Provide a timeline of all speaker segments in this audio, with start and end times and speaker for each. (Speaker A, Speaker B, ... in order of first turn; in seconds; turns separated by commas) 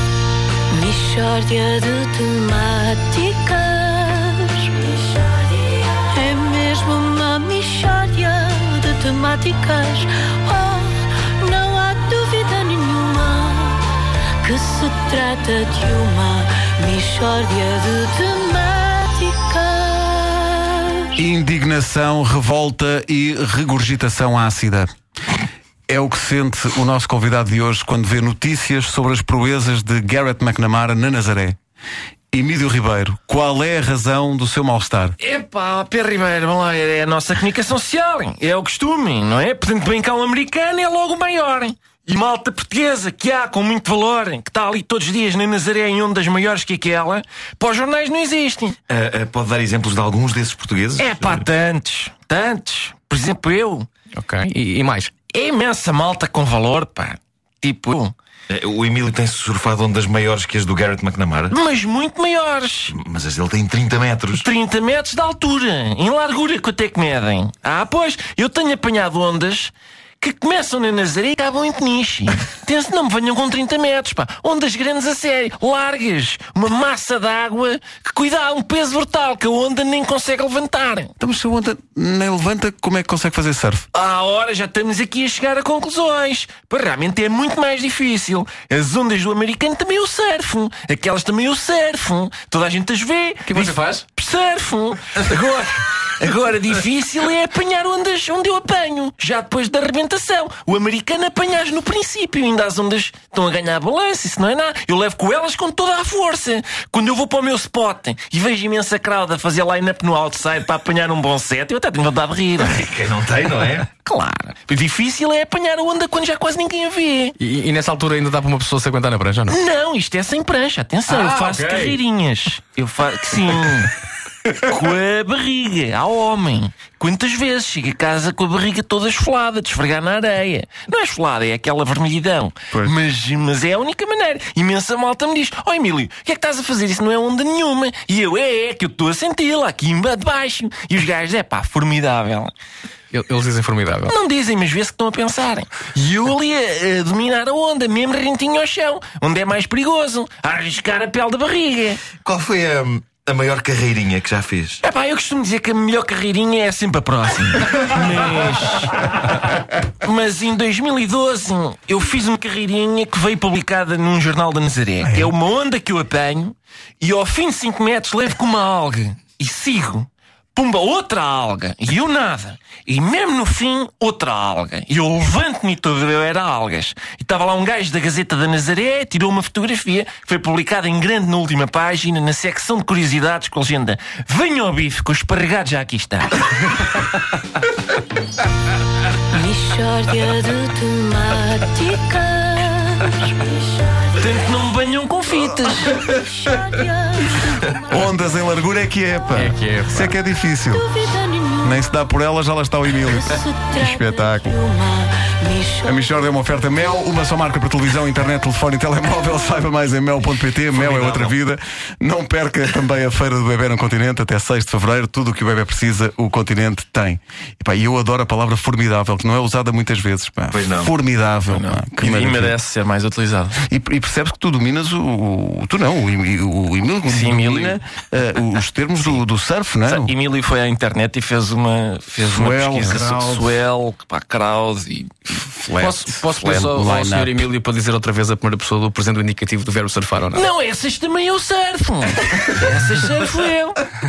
Speaker A: 0.7-21.1, Speaker B: 21.1-24.9, Speaker B: 25.9-31.6, Speaker B: 32.3-35.1, Speaker C: 35.2-48.8, Speaker D: 48.9-51.5, Speaker C: 51.0-53.9, Speaker E: 54.1-55.1, Speaker C: 55.3-58.1, Speaker D: 58.5-61.5, Speaker C: 61.5-62.9, Speaker D: 62.9-64.5, Speaker C: 64.4-81.1, Speaker B: 81.2-83.8, Speaker C: 83.9-112.9, Speaker E: 93.5-94.0, Speaker D: 112.6-113.9, Speaker C: 113.9-117.3, Speaker E: 117.4-119.6, Speaker C: 119.5-123.9, Speaker E: 121.1-122.0, Speaker C: 124.6-142.5, Speaker E: 143.1-144.2, Speaker C: 144.1-152.0, Speaker D: 152.2-154.8, Speaker C: 154.8-186.3, Speaker A: 189.3-194.2, Speaker C: 194.1-196.0, Speaker A: 196.0-197.8, Speaker B: 197.7-200.9, Speaker E: 199.3-200.1, Speaker A: 200.7-201.8, Speaker B: 201.6-204.6, Speaker A: 203.0-206.0, Speaker B: 205.8-222.5, Speaker D: 210.7-211.3, Speaker D: 220.5-220.9, Speaker C: 221.5-223.6, Speaker B: 223.6-230.1, Speaker C: 227.0-227.8, Speaker C: 229.8-235.4, Speaker B: 232.2-233.5, Speaker B: 235.4-237.5, Speaker E: 235.8-240.4, Speaker C: 240.3-243.8